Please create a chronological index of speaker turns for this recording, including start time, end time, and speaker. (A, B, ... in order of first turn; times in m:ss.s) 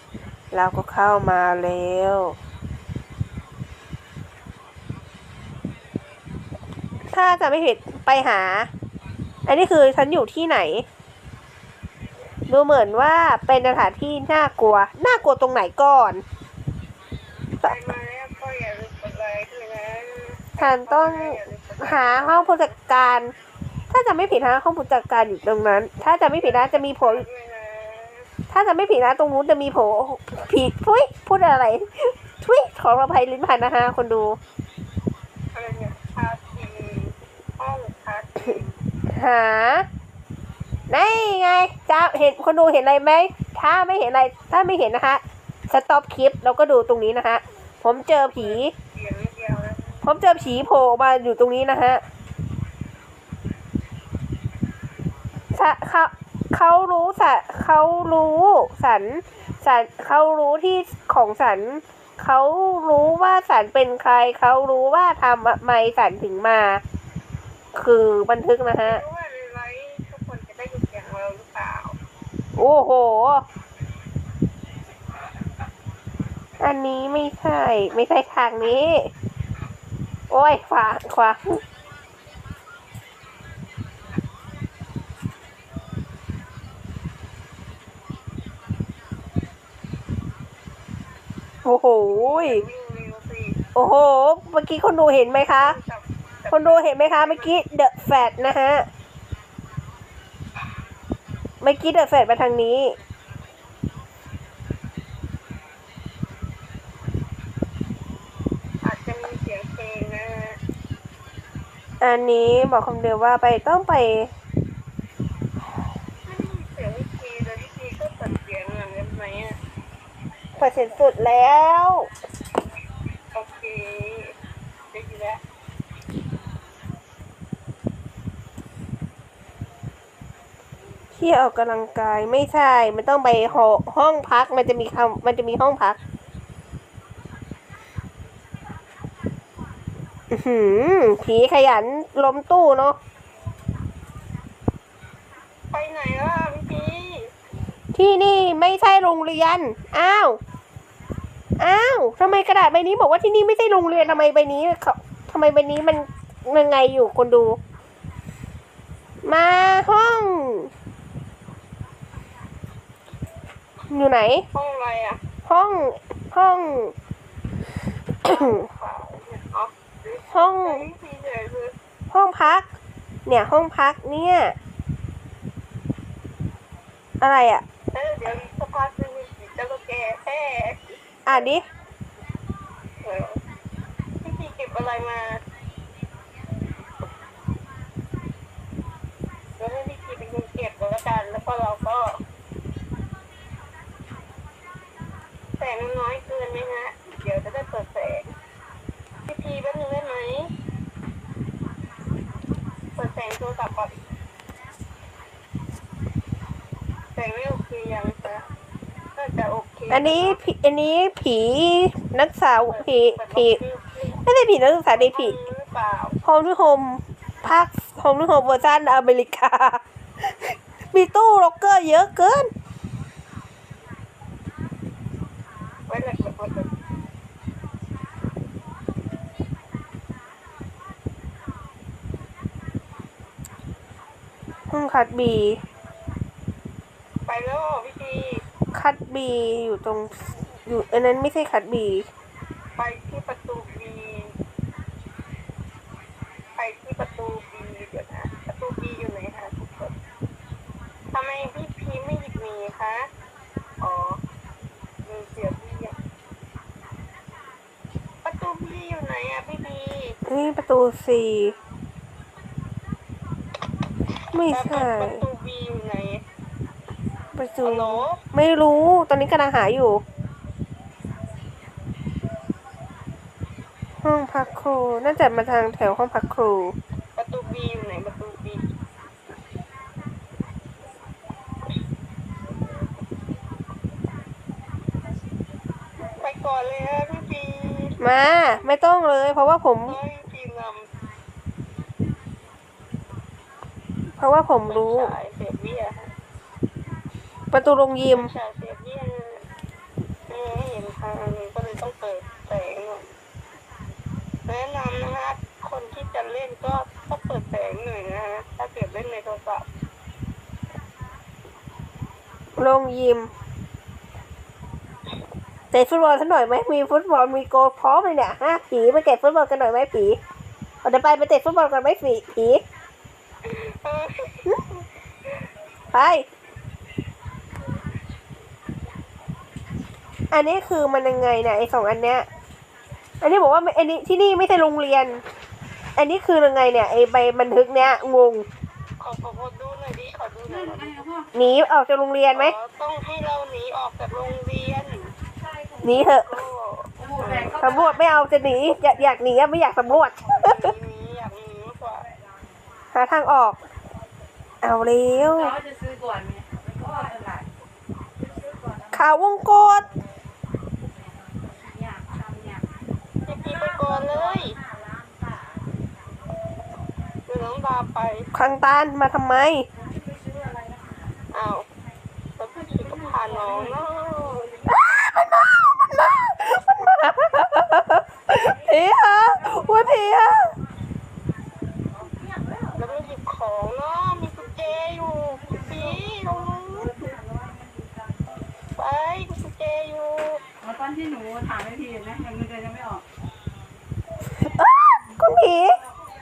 0:00.5-0:02.4 A
0:07.1-0:08.7 A
0:09.4-0:10.8 A
0:12.5-0:16.2 A
0:17.6-0:22.7 B
0:20.6-0:23.3 A
0:23.9-0:27.2 A
0:26.4-0:28.3 B
0:28.5-0:34.4 A
0:35.5-0:38.8 B
0:39.1-0:39.8 A
0:40.9-0:48.7 A
0:48.4-0:50.1 B
0:50.0-0:52.0 A
0:55.5-1:06.8 A
1:07.8-1:09.0 A
1:08.8-1:12.0 B
1:12.6-1:13.4 A
1:16.6-1:19.1 A
1:20.3-1:21.6 A
1:31.6-1:32.6 A
1:32.1-1:33.6 B
1:33.7-1:35.8 A
1:35.6-1:37.6 B
1:36.5-1:38.9 A
1:41.6-1:43.0 A
1:48.8-1:50.6 B
1:52.0-1:54.3 A
1:56.2-1:59.6 B
2:00.6-2:02.1 A
2:03.3-2:04.3 B
2:04.9-2:05.4 B
2:11.1-2:16.0 A
2:20.3-2:23.0 A
2:25.7-2:27.3 B
2:27.9-2:30.4 A
2:31.6-2:37.6 A
2:39.2-2:40.7 A
2:43.9-2:44.4 A
2:44.5-2:45.2 B
2:45.4-2:46.9 A
2:48.2-2:51.7 B
2:48.3-2:48.6 A
2:50.3-2:50.9 A
2:52.1-2:52.7 A
2:53.2-2:54.6 A
2:57.2-2:57.6 A
2:57.9-3:00.9 B
3:01.2-3:01.6 A
3:03.0-3:03.4 B
3:04.2-3:05.4 B
3:09.6-3:12.2 B
3:15.6-3:18.3 B
3:19.2-3:20.5 B
3:22.9-3:24.0 B
3:27.1-3:28.5 B
3:29.2-3:30.4 B
3:29.9-3:33.6 A
3:32.6-3:34.2 B
3:34.2-3:35.3 A
3:34.9-3:36.2 B
3:36.2-3:42.5 A
3:45.9-3:46.7 B
3:54.7-3:55.6 A
3:57.3-3:58.4 B
3:58.7-4:02.1 A
4:02.8-4:04.3 B
4:06.6-4:09.9 B
4:11.1-4:13.1 B
4:13.8-4:14.2 B
4:15.0-4:16.0 B
4:18.2-4:20.2 B
4:20.3-4:21.6 A
4:24.3-4:25.2 A
4:24.5-4:26.2 B
4:27.3-4:30.0 A
4:27.6-4:28.2 B
4:34.0-4:36.7 A
4:37.2-4:38.6 B
4:46.2-4:48.0 B
4:48.0-4:50.0 A
4:49.8-4:50.9 B
4:54.2-4:55.1 A
4:54.7-4:56.1 B
4:57.5-4:58.3 A
4:58.1-4:59.4 B
5:00.3-5:03.1 B
5:04.4-5:09.6 B
5:12.6-5:13.3 A
5:15.7-5:20.2 A
5:20.8-5:22.6 A
5:23.4-5:24.8 B
5:25.9-5:26.2 A
5:30.3-5:32.2 A
5:33.2-5:35.2 A
5:36.0-5:38.4 A
5:39.0-5:41.0 B
5:40.5-5:41.3 C
5:41.3-5:42.5 A
5:42.3-5:45.1 B
5:45.8-5:46.4 A
5:46.1-5:47.6 B
5:47.0-5:47.9 C
5:47.5-5:50.7 A
5:50.2-5:52.1 B
5:52.9-5:53.6 A
5:54.6-5:55.6 A
5:55.4-5:57.4 C
5:58.9-5:59.9 A
6:01.5-6:02.6 C
6:03.2-6:04.6 B
6:07.3-6:08.3 B
6:08.3-6:09.7 A
6:10.0-6:11.0 C
6:11.3-6:11.6 B
6:12.4-6:14.5 B
6:14.6-6:20.5 A
6:22.2-6:22.7 C
6:22.7-6:27.0 B
6:27.0-6:27.9 C
6:28.8-6:30.4 B
6:30.6-6:33.0 C
6:34.3-6:35.8 A